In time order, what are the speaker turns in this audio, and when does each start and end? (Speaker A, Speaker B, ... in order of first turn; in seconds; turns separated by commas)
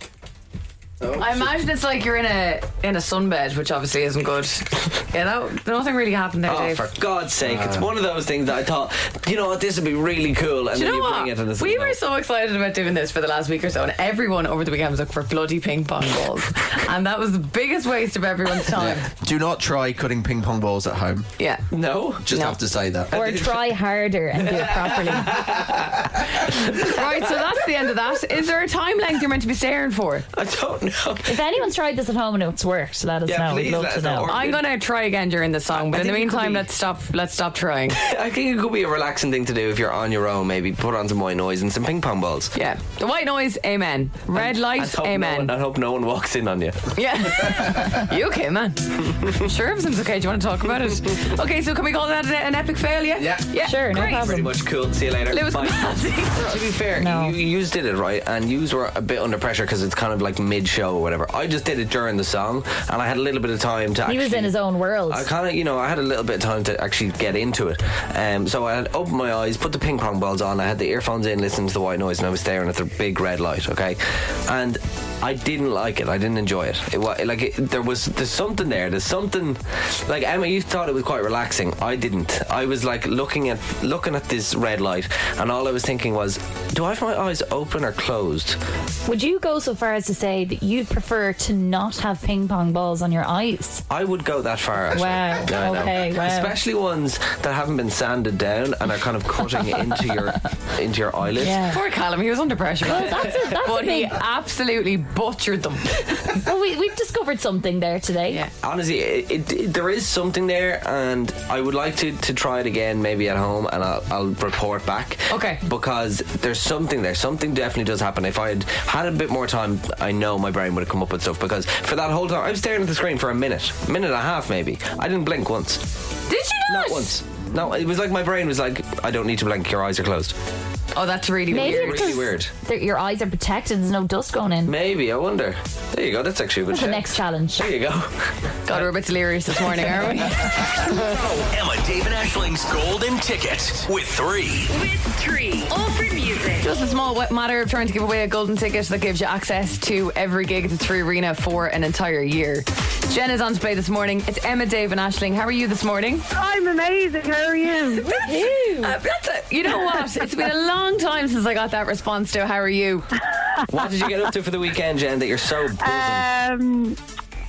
Speaker A: 1.0-1.5, Speaker B: 1.1-6.9, Speaker C: 6.5-12.0, Speaker A: 7.4-7.9, Speaker B: 10.7-19.1, Speaker A: 18.7-21.3, Speaker B: 21.4-21.6, Speaker C: 21.7-22.3, Speaker A: 22.2-23.1, Speaker B: 22.3-22.6, Speaker C: 23.1-23.6, Speaker D: 23.1-25.5, Speaker C: 24.5-27.1, Speaker B: 26.8-30.3, Speaker C: 30.3-31.4, Speaker D: 31.3-34.3, Speaker C: 33.3-34.6, Speaker B: 34.3-38.0, Speaker C: 35.7-36.7, Speaker C: 38.0-42.5, Speaker B: 42.5-45.5, Speaker C: 44.3-47.6, Speaker B: 47.0-54.4, Speaker C: 49.1-49.4, Speaker D: 53.6-54.5, Speaker C: 53.9-64.5, Speaker B: 55.3-56.8, Speaker D: 57.0-57.4, Speaker D: 64.1-65.3, Speaker C: 65.1-88.6, Speaker D: 89.1-93.8, Speaker C: 93.9-101.6, Speaker D: 94.9-96.5, Speaker D: 101.4-101.8, Speaker B: 101.7-106.4, Speaker D: 102.8-104.2, Speaker D: 106.4-108.4, Speaker C: 108.6-125.9, Speaker B: 115.3-115.6, Speaker B: 126.3-127.1, Speaker C: 126.7-130.3, Speaker B: 130.9-132.2, Speaker C: 131.5-132.5, Speaker D: 131.5-134.7, Speaker C: 134.7-138.9, Speaker D: 136.7-137.7, Speaker B: 138.7-141.1, Speaker C: 139.7-140.0, Speaker E: 140.9-144.7, Speaker F: 144.7-146.8, Speaker B: 146.6-156.2, Speaker G: 156.3-158.1, Speaker D: 158.0-158.9, Speaker B: 158.1-163.1, Speaker C: 163.7-166.3, Speaker G: 165.8-167.0